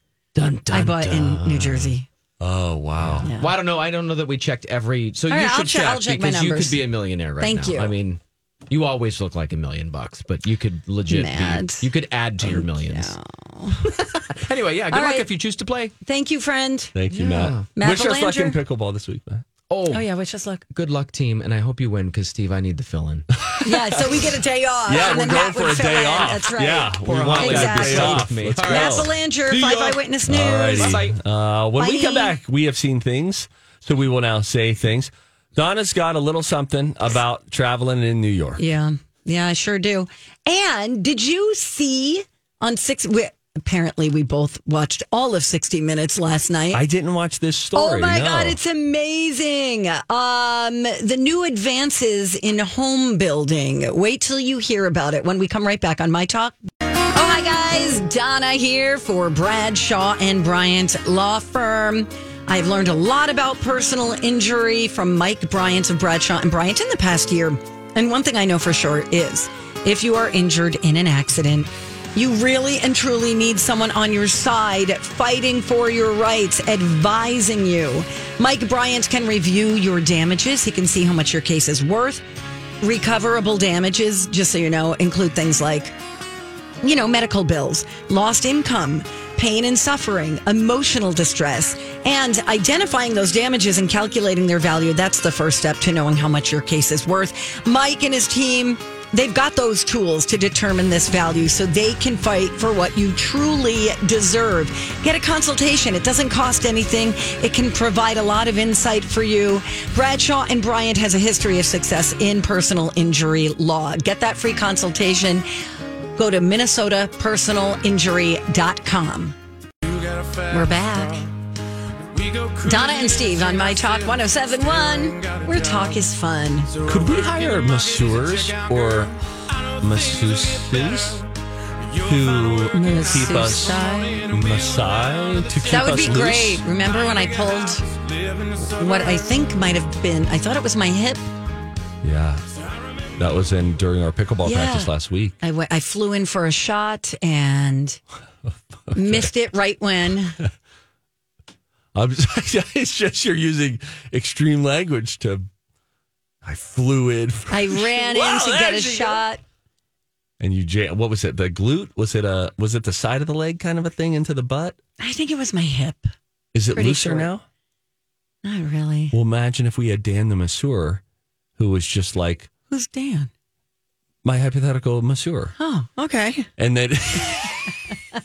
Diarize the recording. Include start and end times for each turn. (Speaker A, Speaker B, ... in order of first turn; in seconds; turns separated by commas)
Speaker A: 0.3-1.9, Speaker B: 0.7-2.1, Speaker C: 2.4-3.3, Speaker A: 3.0-13.2, Speaker B: 3.2-3.5, Speaker B: 5.3-6.9, Speaker B: 7.4-7.9, Speaker B: 11.1-11.9, Speaker B: 12.4-13.9, Speaker A: 13.9-15.9, Speaker B: 14.9-15.3, Speaker B: 16.0-18.6, Speaker C: 16.9-19.4, Speaker A: 17.2-17.7, Speaker A: 19.7-20.1, Speaker B: 19.9-20.6, Speaker A: 20.7-24.2, Speaker B: 23.6-31.0, Speaker C: 24.9-29.1, Speaker A: 25.0-26.4, Speaker A: 27.0-30.1, Speaker C: 30.3-38.6, Speaker A: 30.7-31.2, Speaker B: 31.8-32.4, Speaker B: 38.6-46.8, Speaker C: 46.7-48.6, Speaker B: 47.7-56.6, Speaker B: 57.1-82.2, Speaker B: 82.8-85.9, Speaker B: 86.8-115.5, Speaker B: 116.2-119.4, Speaker B: 120.5-121.3, Speaker B: 122.6-126.7, Speaker C: 126.8-131.3, Speaker C: 132.0-136.6, Speaker B: 132.7-134.3, Speaker B: 135.7-137.8, Speaker B: 138.7-141.2, Speaker C: 142.0-142.5, Speaker C: 143.2-145.4, Speaker B: 144.4-148.0, Speaker C: 148.5-149.3, Speaker B: 148.9-150.4, Speaker C: 151.9-155.5, Speaker C: 156.4-159.2, Speaker B: 157.5-159.4, Speaker C: 160.4-164.8, Speaker B: 165.0-166.1, Speaker C: 166.5-167.4, Speaker B: 166.7-167.3, Speaker B: 168.4-169.2, Speaker C: 169.1-171.0, Speaker C: 171.6-172.5, Speaker B: 172.7-173.3, Speaker C: 174.2-175.5, Speaker B: 175.6-176.5, Speaker C: 176.6-177.6